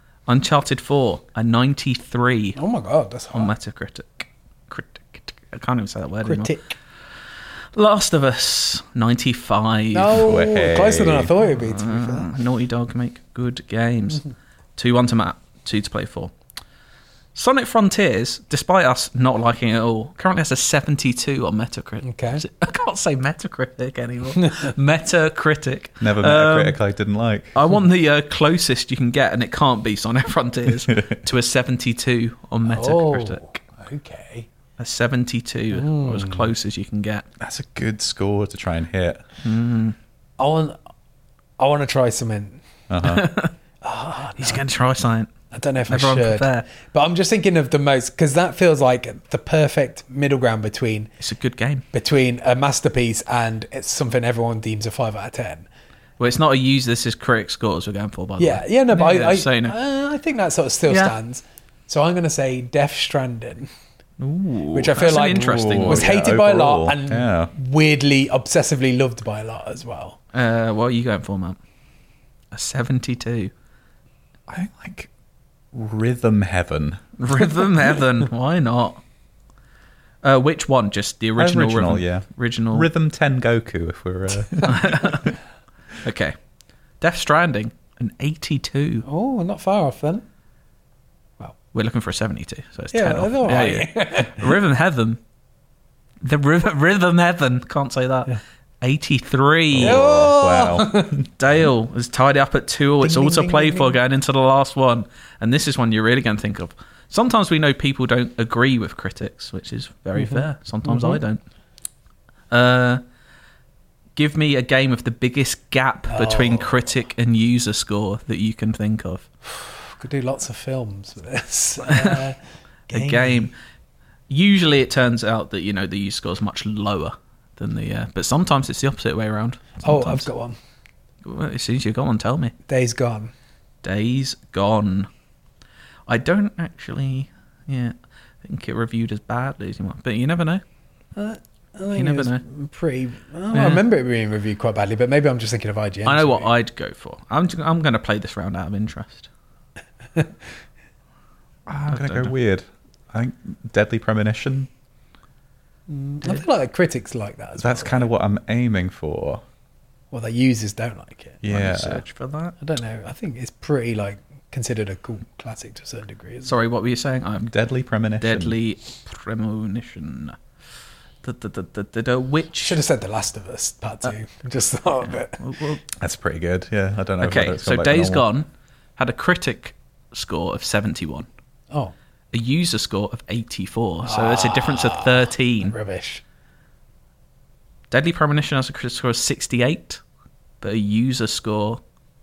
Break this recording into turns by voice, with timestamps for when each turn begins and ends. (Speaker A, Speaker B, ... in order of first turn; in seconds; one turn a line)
Speaker A: 0.3-2.6
Speaker B: 2.5-3.5
Speaker A: 3.3-6.5
Speaker B: 6.2-6.7
Speaker A: 7.8-10.3
Speaker B: 9.9-12.3
Speaker C: 10.1-11.3
Speaker A: 11.4-14.2
Speaker A: 14.8-16.3
Speaker A: 17.3-26.8
Speaker B: 22.0-22.4
Speaker B: 24.4-24.7
Speaker C: 26.0-27.5
Speaker A: 27.5-33.5
Speaker B: 32.6-34.5
Speaker A: 34.8-37.2
Speaker B: 35.7-36.5
Speaker C: 37.4-39.2
Speaker A: 39.4-40.0
Speaker B: 40.4-40.8
Speaker B: 41.6-42.6
Speaker C: 42.9-43.3
Speaker A: 43.0-43.5
Speaker B: 43.8-44.6
Speaker A: 44.4-45.3
Speaker B: 45.5-51.1
Speaker A: 45.9-46.6
Speaker A: 51.2-51.8
Speaker B: 51.9-55.6
Speaker A: 56.2-59.7
Speaker B: 58.4-63.7
Speaker A: 60.9-61.1
Speaker A: 64.2-66.0
Speaker B: 64.7-70.2
Speaker C: 65.4-67.5
Speaker A: 70.3-71.6
Speaker A: 72.5-73.5
Speaker C: 74.5-75.1
Speaker C: 75.7-77.1
Speaker A: 77.2-79.0
Speaker A: 80.2-82.9
Speaker C: 81.4-85.3
Speaker A: 84.6-85.3
Speaker A: 86.0-86.3
Speaker A: 87.0-89.0
Speaker B: 89.0-90.2
Speaker A: 91.7-95.2
Speaker B: 92.9-94.6
Speaker A: 96.2-100.0
Speaker C: 99.7-101.3
Speaker B: 99.8-101.2
Speaker A: 101.4-111.4
Speaker B: 103.0-104.0
Speaker B: 110.2-111.2
Speaker A: 112.5-113.0
Speaker A: 114.2-119.2
Speaker B: 116.1-116.9
Speaker B: 119.5-122.4
Speaker A: 121.8-122.2
Speaker B: 122.9-123.5
Speaker A: 122.9-123.5
Speaker A: 124.3-130.3
Speaker B: 129.8-130.6
Speaker A: 131.2-132.5
Speaker B: 132.7-133.3
Speaker A: 133.8-135.1
Speaker A: 136.1-140.6
Speaker B: 141.2-146.5
Speaker A: 141.9-142.4
Speaker A: 143.5-143.8
Speaker A: 146.0-149.3
Speaker A: 151.7-152.3
Speaker C: 151.7-154.7
Speaker B: 155.9-158.1
Speaker C: 157.6-159.4
Speaker B: 160.1-161.4
Speaker C: 161.4-162.0
Speaker A: 161.5-162.5
Speaker B: 162.6-166.5
Speaker A: 166.4-167.5
Speaker C: 167.4-168.6
Speaker A: 168.2-170.4
Speaker A: 171.2-172.8
Speaker B: 172.6-175.4
Speaker A: 175.4-175.8
Speaker C: 176.0-178.2
Speaker A: 177.2-181.3
Speaker A: 182.3-185.7
Speaker B: 184.1-186.2
Speaker A: 187.9-190.0
Speaker A: 190.6-191.8